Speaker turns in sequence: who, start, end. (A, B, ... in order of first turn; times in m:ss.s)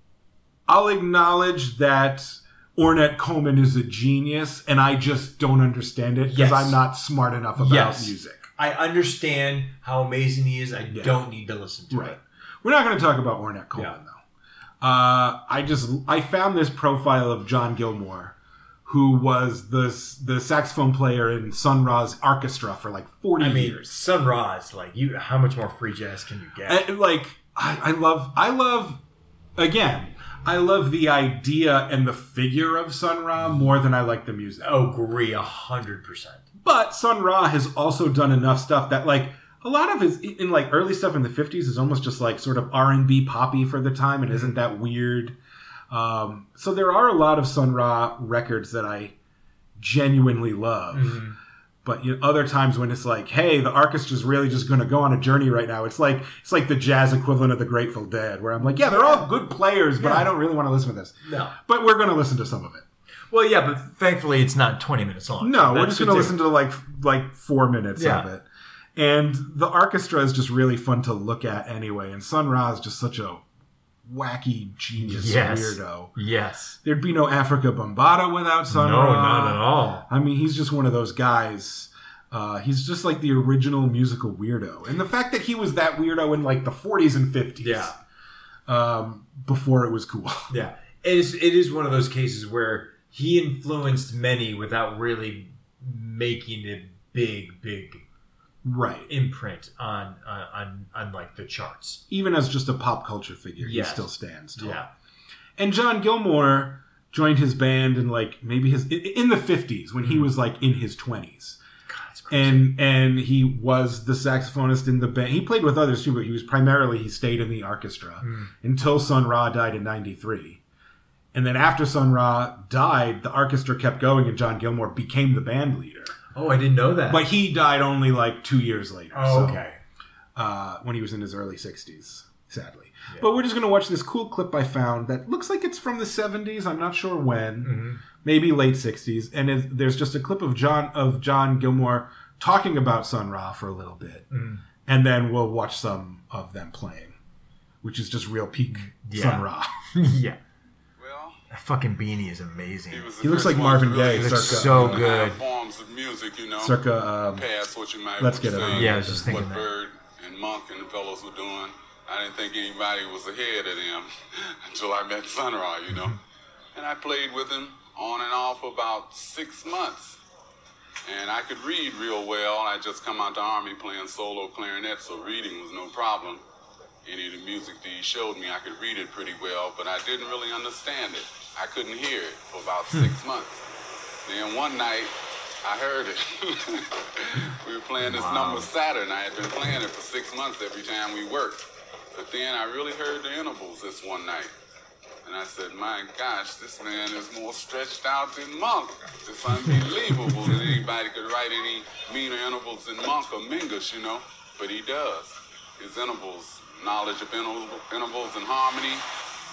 0:00.7-0:08.4 A
0:06.3-0:06.8 B
0:07.6-0:12.2 B
0:10.9-0:11.2 A
0:11.9-0:14.2 A
0:14.8-0:23.9 A
0:23.4-0:26.8 B
0:26.7-0:29.0 A
0:29.6-0:34.7 A
0:34.6-0:36.4 B
0:36.6-0:45.4 A
0:45.9-0:49.1 A
0:49.8-0:51.2 A
0:50.9-0:51.4 B
0:51.8-1:02.8 A
0:58.8-0:59.3 B
1:00.0-1:00.3 B
1:01.2-1:01.6 B
1:03.3-1:06.4 B
1:05.4-1:13.4 A
1:08.0-1:08.3 B
1:14.0-1:16.1 A
1:15.0-1:16.8 B
1:16.8-1:27.9 A
1:18.7-1:20.0 B
1:27.6-1:27.9 B
1:28.7-1:30.5 A
1:30.5-1:38.0 B
1:38.6-1:39.1 A
1:39.1-1:42.0 B
1:42.1-1:44.8 A
1:43.6-1:44.9 B
1:45.6-1:51.6 A
1:51.9-1:52.7 B
1:52.3-2:00.6 A
1:58.2-1:58.5 B
2:01.3-2:06.1 A
2:06.3-2:07.3 B
2:07.1-2:09.6 A
2:09.1-2:09.8 B
2:10.4-2:24.3 A
2:17.6-2:18.0 B
2:24.3-2:24.6 B
2:24.8-2:27.2 A
2:27.8-2:29.7 A
2:28.6-2:30.4 B
2:31.0-2:31.4 C
2:31.5-2:33.1 B
2:32.9-2:36.8 C
2:33.2-2:35.1 A
2:34.1-2:35.4 B
2:36.6-2:37.4 A
2:37.3-2:46.2 C
2:38.2-2:39.4 A
2:38.7-2:39.7 B
2:46.7-2:50.2 C
2:51.0-2:56.4 C
2:57.0-3:03.6 C
3:04.2-3:05.1 C
3:05.6-3:11.6 C
3:08.0-3:08.7 B
3:12.1-3:14.5 C
3:15.2-3:29.0 C